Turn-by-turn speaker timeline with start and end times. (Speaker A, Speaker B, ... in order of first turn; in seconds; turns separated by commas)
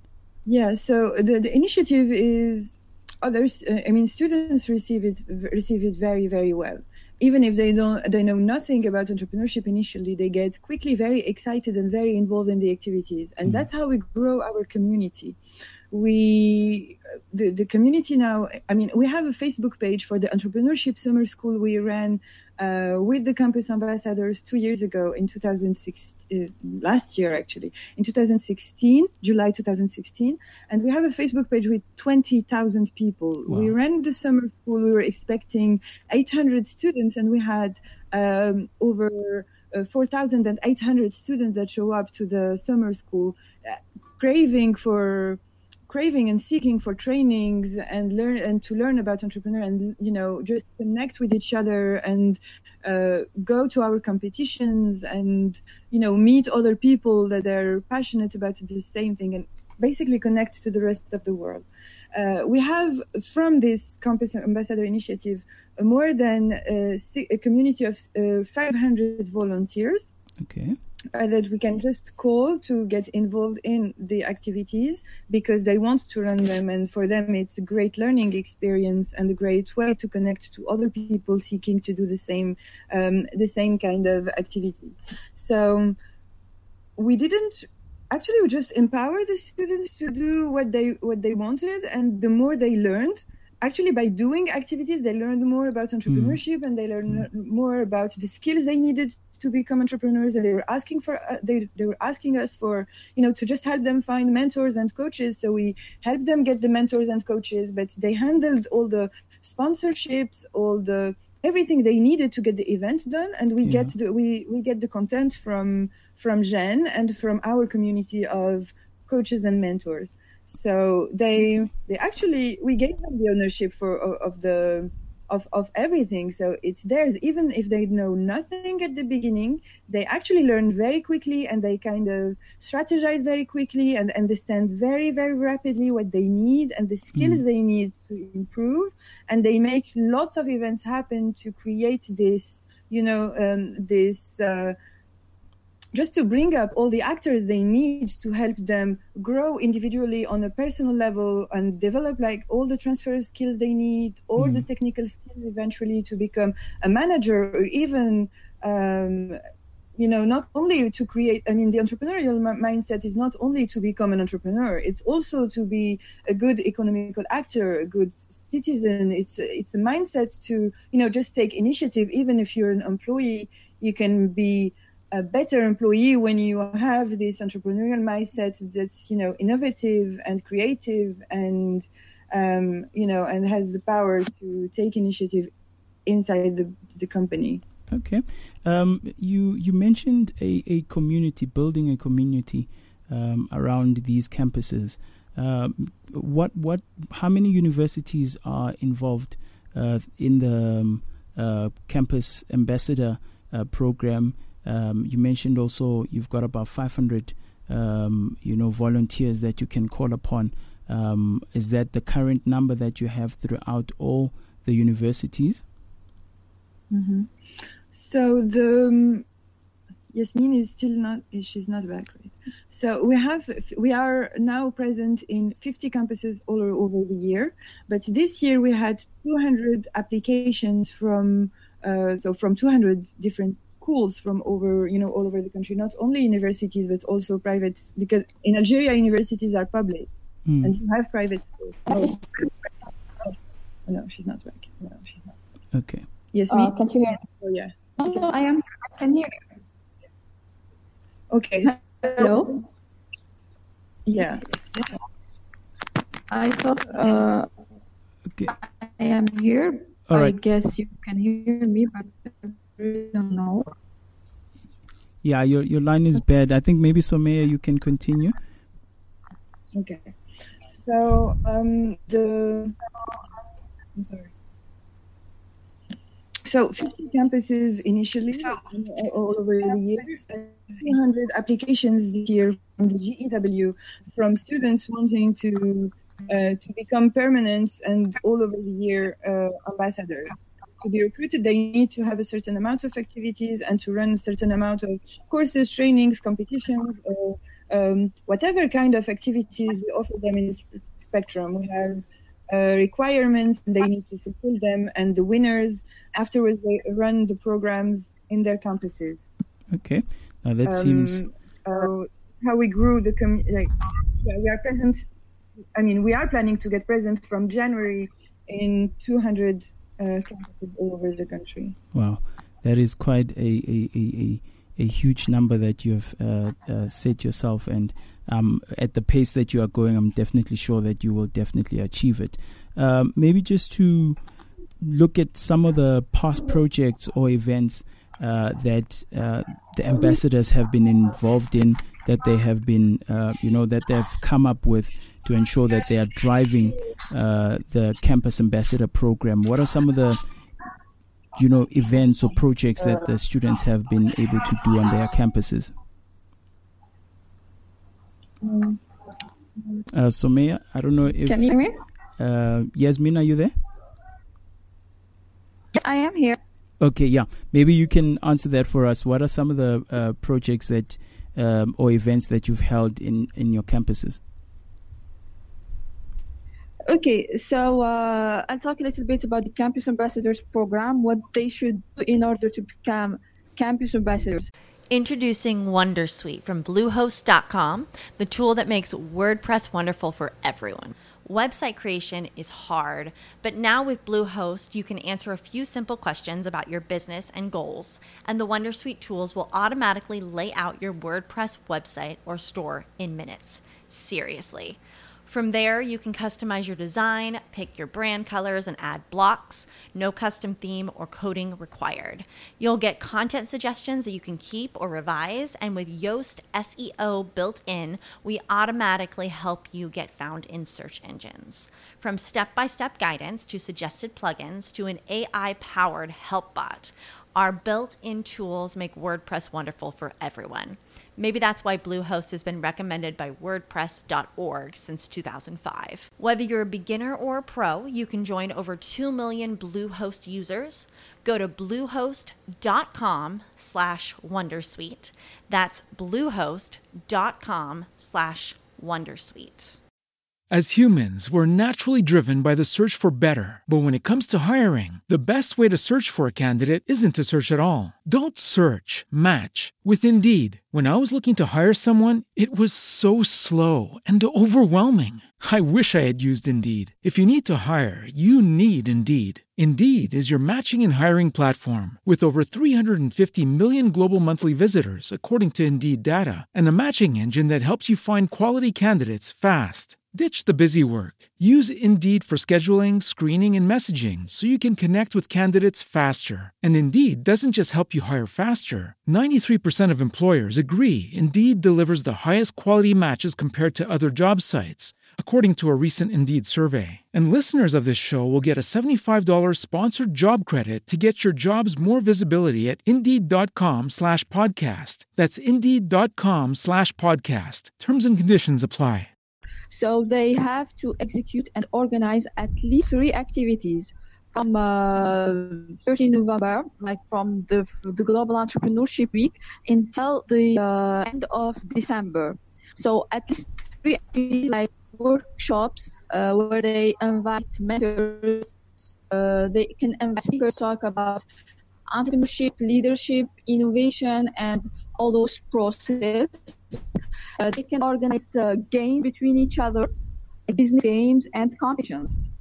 Speaker A: 0.5-15.4, Speaker A: 15.9-70.1, Speaker B: 33.5-33.7, Speaker B: 70.4-70.8, Speaker A: 71.1-86.0, Speaker A: 87.0-144.8, Speaker B: 96.1-96.4, Speaker B: 113.6-113.9, Speaker B: 137.2-137.4, Speaker A: 145.9-159.4, Speaker B: 154.4-154.7, Speaker A: 160.0-185.5, Speaker A: 186.1-187.6, Speaker B: 187.9-215.6, Speaker A: 216.9-217.3, Speaker A: 217.9-219.2, Speaker A: 220.1-240.1, Speaker B: 240.5-240.8, Speaker A: 240.6-242.1, Speaker C: 241.9-242.2, Speaker A: 243.9-245.3, Speaker B: 245.7-246.1, Speaker A: 246.3-248.2, Speaker C: 246.5-247.2, Speaker C: 248.0-249.4, Speaker A: 251.3-252.3, Speaker C: 251.7-252.6, Speaker A: 254.1-254.9, Speaker C: 256.3-257.5, Speaker C: 258.5-263.7, Speaker B: 260.1-260.4, Speaker B: 265.2-268.4, Speaker A: 269.7-270.1, Speaker A: 270.7-272.8, Speaker A: 273.9-274.3, Speaker A: 276.5-309.2, Speaker B: 309.7-311.2, Speaker A: 310.6-315.0, Speaker A: 315.8-321.8, Speaker B: 321.9-334.2, Speaker B: 334.8-350.2, Speaker B: 351.4-355.7, Speaker A: 358.4-358.8, Speaker B: 359.9-361.6, Speaker C: 361.2-361.8, Speaker B: 362.2-363.5, Speaker C: 365.8-366.4, Speaker B: 366.8-374.2, Speaker C: 376.9-384.5, Speaker D: 384.9-449.8, Speaker E: 450.5-509.1, Speaker C: 509.7-531.2, Speaker C: 531.9-536.9, Speaker C: 537.4-539.9, Speaker C: 540.5-542.2